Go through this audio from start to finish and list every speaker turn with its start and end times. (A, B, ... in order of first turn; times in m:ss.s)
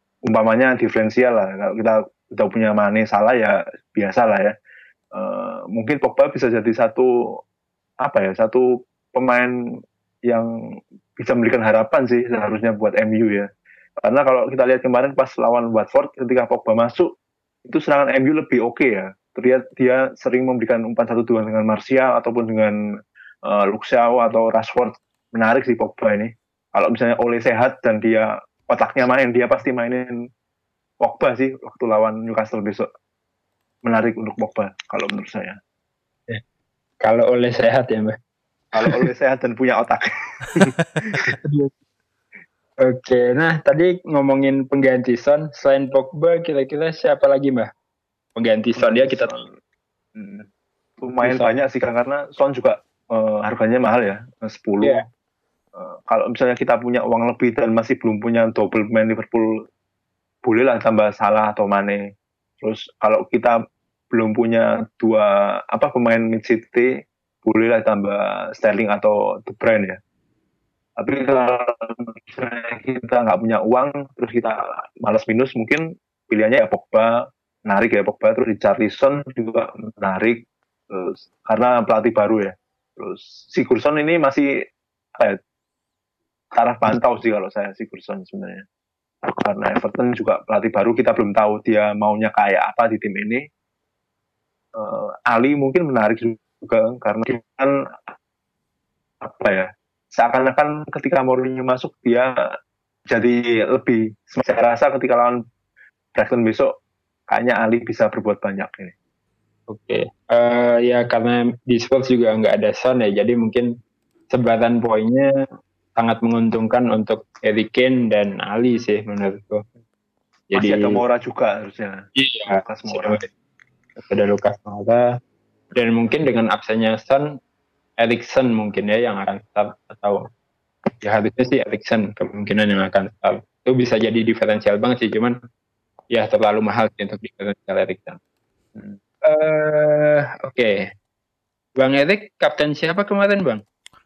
0:00.2-0:04.5 A
0:05.1-0:07.4 A
0:08.0-0:09.5 A
0:11.2-0:13.5 A
0:14.0-0:17.1 A
0:17.6-0:22.8 A
0:23.5-0:30.1 A
0:31.0-0:32.9 A
0:33.8-0:35.6 A
0:37.0-0:38.2 B
0:38.7-0:39.1 B
0:38.8-0:41.3 A
0:41.2-0:41.7 B
0:42.8-0:47.7 B
0:48.4-0:49.4 B
0:48.8-0:49.5 A
0:50.2-0:50.5 A
0:51.0-0:55.0 A
0:51.2-0:51.5 B
0:55.8-0:59.5 A
1:00.4-1:02.0 A
1:02.6-1:03.6 A
1:04.1-1:06.9 A
1:07.4-1:10.0 A
1:11.0-1:24.5 A
1:26.5-1:28.6 A
1:29.4-1:33.4 A
1:34.8-1:37.8 A
1:39.2-1:42.3 A
1:43.1-1:45.4 A
1:46.1-1:46.7 A
1:47.3-1:48.9 A
1:49.7-1:53.7 B
1:54.3-1:55.3 B
1:56.0-1:59.6 B
2:00.5-2:01.0 B
2:00.6-2:03.3 A
2:02.2-2:03.2 B
2:04.0-2:05.0 B
2:05.8-2:07.3 B
2:08.0-2:10.2 B
2:11.0-2:15.4 B
2:16.1-2:18.2 B
2:18.8-2:20.9 B
2:21.8-2:23.6 B